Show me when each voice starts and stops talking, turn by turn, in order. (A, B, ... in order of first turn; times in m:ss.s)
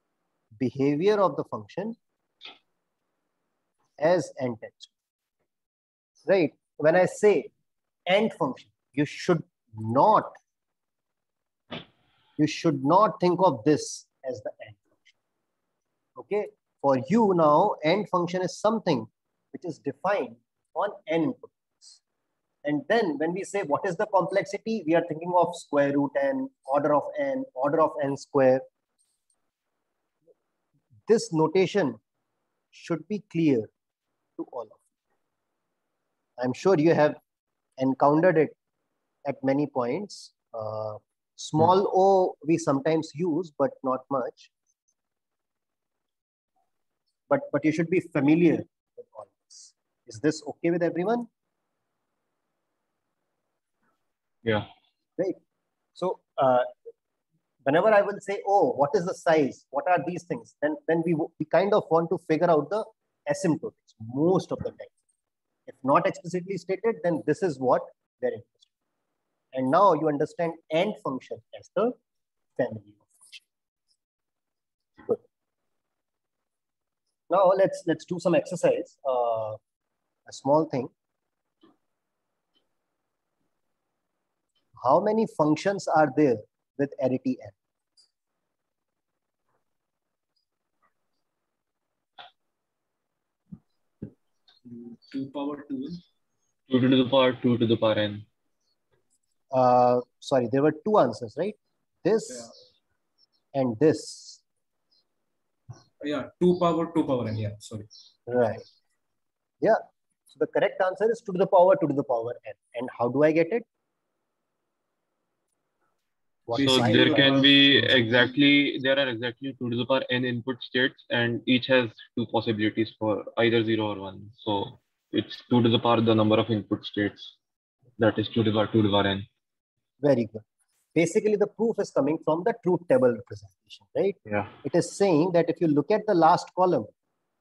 0:00.6-0:02.0 A
0:04.0-0:04.9 A
0:06.3-0:07.5 A
0:08.1-0:10.4 A
0:12.4-0:15.1 A
0:16.2-0:22.0 A
0:22.6-0:28.6 A
0:31.1-0:32.0 A
0:32.7-0:33.7 A
0:34.4-0:34.8 A
0:36.4-0:37.2 A
0:37.8-0:38.6 A
0:39.2-0:44.5 A
0:47.3-0:51.3 A
0:56.0-0:56.7 A
0:57.6-1:04.9 A
1:05.7-1:08.7 A
1:09.5-1:12.0 A
1:12.6-1:13.4 A
1:17.3-1:19.6 A
1:20.3-1:20.9 A
1:24.8-1:27.6 A
1:34.6-1:36.0 B
1:36.7-1:38.3 C
1:39.5-1:42.5 A
1:43.5-1:44.4 A
1:46.0-1:47.9 B
1:48.3-1:48.6 A
1:50.3-1:53.6 A
1:56.5-1:57.4 A
1:56.5-1:58.4 B
1:56.6-2:07.4 C
2:08.0-2:09.3 C
2:10.0-2:10.4 A
2:11.0-2:16.9 A
2:14.3-2:14.5 C